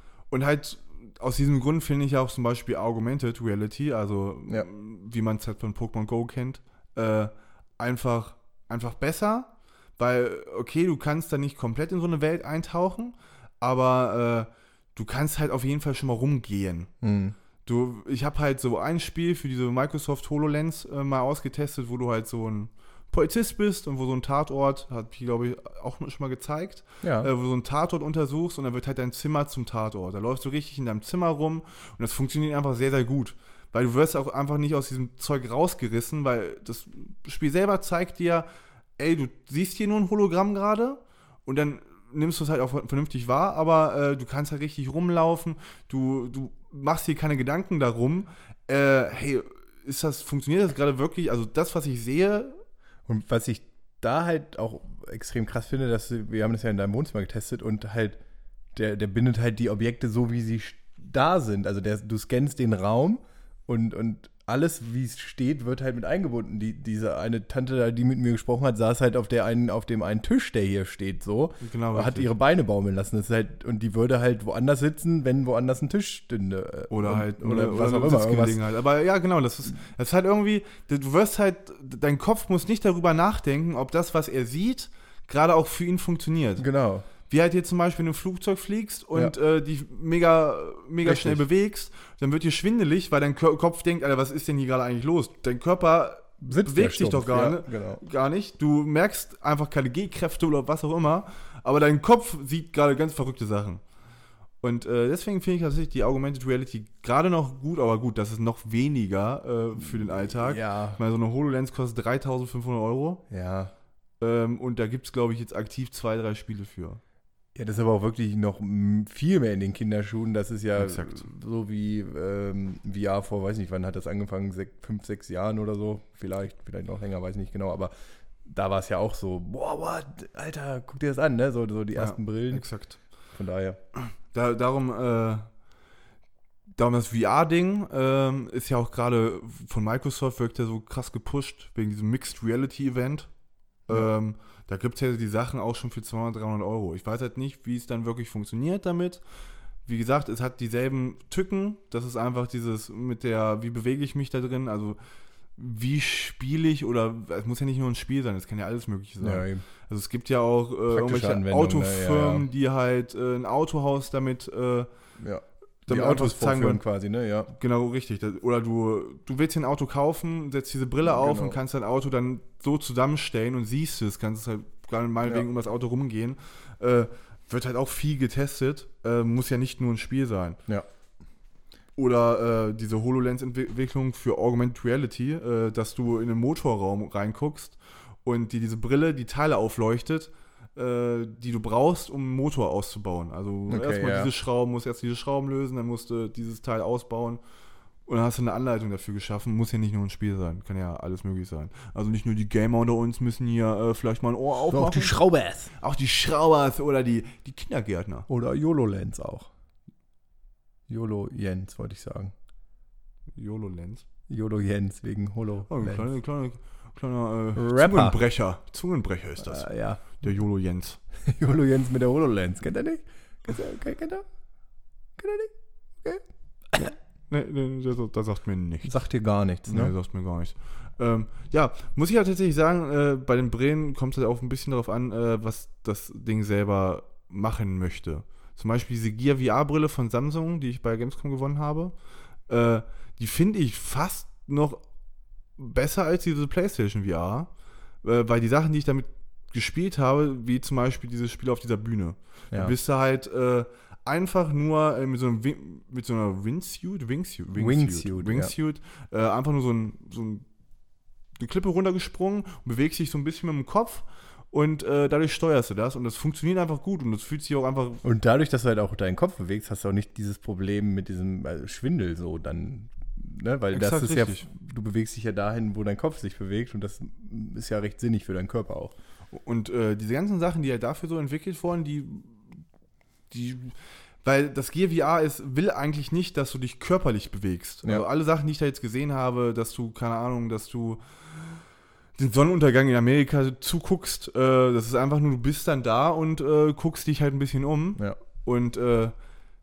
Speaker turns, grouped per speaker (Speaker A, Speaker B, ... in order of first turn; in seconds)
Speaker A: 0.3-16.9, 17.6-38.5, 39.0-52.6, 71.6-72.3, 76.9-86.7, 87.3-103.8, 104.6-113.2, 114.2-117.0, 120.8-121.2, 132.0-133.0, 134.3-135.5, 136.8-143.3, 143.9-149.2, 149.8-155.0, 155.6-164.9, 165.9-166.8, 167.5-180.6, 182.0-197.4, 198.1-205.2, 205.8-208.3, 213.4-214.0, 215.7-221.0, 227.3-229.0, 229.7-241.9, 242.5-244.8, 245.6-247.5, 248.0-260.5, 261.4-268.0, 273.7-274.5, 279.3-282.4, 283.3-291.6, 292.2-299.1
Speaker B: 17.0-17.4, 27.0-27.3, 53.1-58.2, 58.7-78.6, 86.6-87.1, 91.0-91.4, 96.4-98.0, 110.1-111.0, 113.3-113.7, 117.5-127.9, 128.4-132.7, 133.3-133.8, 159.2-159.6, 160.9-162.4, 165.2-167.5, 171.1-171.6, 193.7-194.3, 204.7-205.7, 208.3-209.5, 210.9-212.3, 214.3-216.1, 217.6-218.2, 219.4-220.2, 221.2-224.2, 225.2-226.9, 228.8-229.9, 257.6-258.5, 268.0-278.9